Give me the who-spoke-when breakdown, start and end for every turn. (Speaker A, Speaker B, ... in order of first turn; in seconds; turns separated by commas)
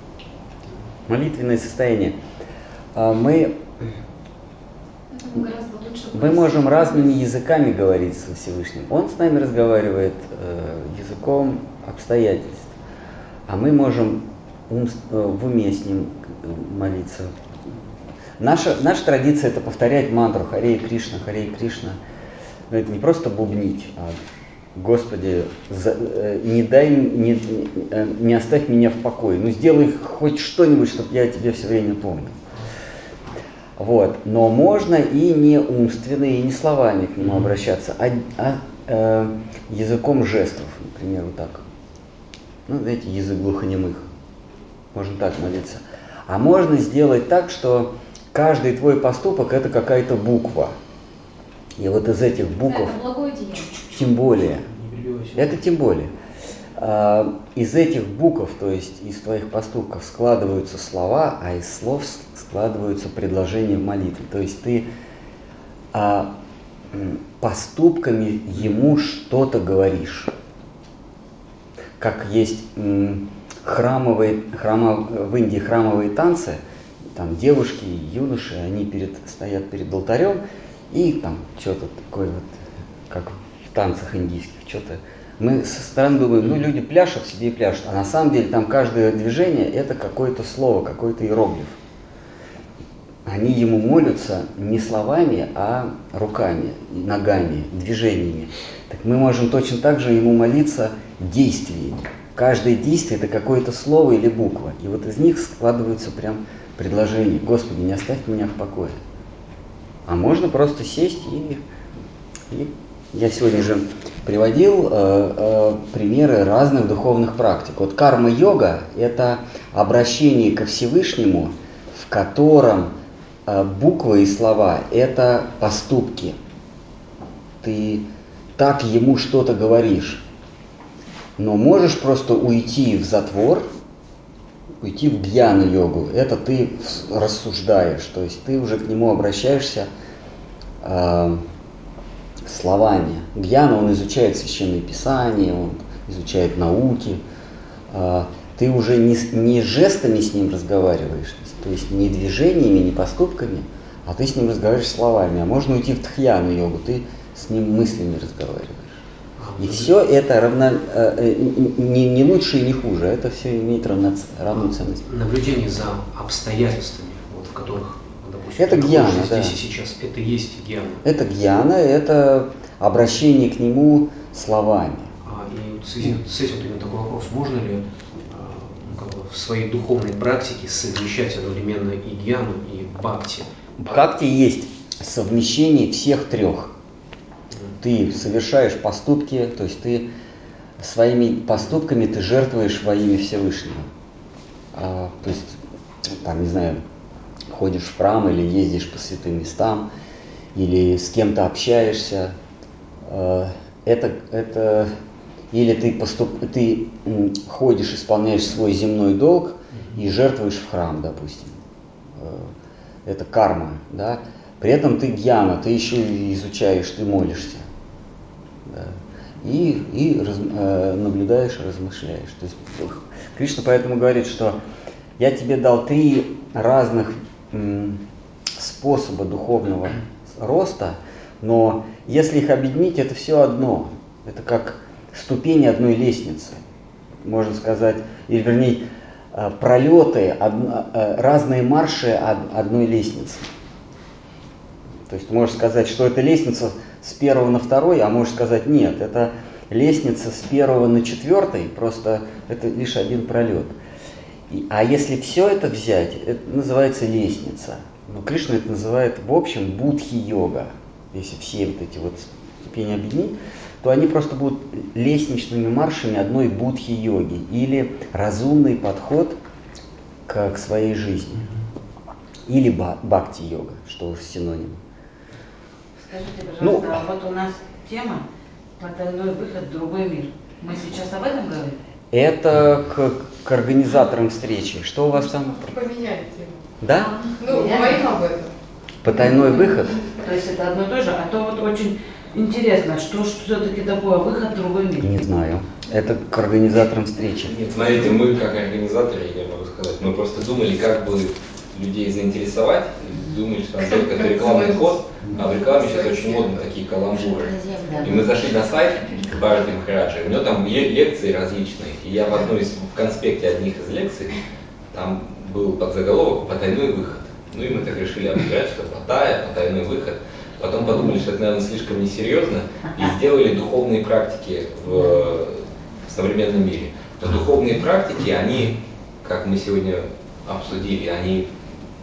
Speaker A: 1.1-2.1, Speaker A: 2.9-3.6, Speaker B: 5.1-7.2, Speaker A: 6.1-12.7, Speaker A: 13.5-17.3, Speaker A: 18.4-22.0, Speaker A: 22.7-24.1, Speaker A: 24.8-32.4, Speaker A: 33.8-41.6, Speaker A: 42.7-44.0, Speaker A: 44.9-50.8, Speaker A: 51.8-52.9, Speaker B: 52.6-53.8, Speaker A: 53.9-54.7, Speaker C: 54.7-55.6, Speaker A: 55.4-56.1, Speaker A: 56.8-64.9, Speaker A: 65.9-66.3, Speaker A: 66.9-70.3, Speaker A: 72.0-76.6, Speaker A: 77.1-82.5, Speaker A: 83.1-91.8, Speaker A: 93.2-109.0, Speaker A: 110.1-111.6, Speaker A: 112.5-122.9, Speaker A: 123.5-126.3, Speaker A: 127.6-130.2, Speaker A: 131.4-133.7, Speaker A: 134.8-139.9, Speaker A: 140.8-141.4, Speaker A: 142.4-147.2, Speaker A: 147.9-159.0, Speaker C: 159.4-159.9, Speaker A: 159.6-165.0, Speaker C: 165.0-171.0, Speaker A: 168.6-169.6, Speaker A: 171.0-175.1, Speaker C: 175.2-183.5, Speaker A: 183.8-186.7, Speaker A: 187.8-190.1, Speaker A: 190.8-193.8, Speaker A: 194.7-195.6, Speaker A: 196.2-196.8, Speaker A: 197.5-199.9, Speaker A: 200.5-202.3, Speaker A: 203.1-204.9, Speaker A: 205.5-211.6, Speaker A: 212.2-212.5, Speaker A: 213.1-217.7, Speaker A: 218.7-224.6, Speaker A: 225.2-228.0, Speaker A: 228.6-236.6, Speaker A: 237.2-243.4, Speaker A: 245.1-253.7, Speaker A: 254.5-269.4, Speaker A: 270.3-271.4, Speaker A: 272.5-274.8, Speaker D: 276.0-278.2, Speaker A: 276.6-277.0, Speaker D: 278.8-281.8, Speaker A: 282.1-285.6, Speaker E: 285.5-286.5, Speaker A: 286.8-287.1, Speaker E: 287.4-288.5, Speaker D: 287.5-288.1, Speaker A: 289.0-290.0, Speaker D: 290.1-295.2, Speaker A: 295.0-297.5, Speaker F: 297.5-314.4, Speaker D: 307.3-308.2, Speaker F: 314.9-331.5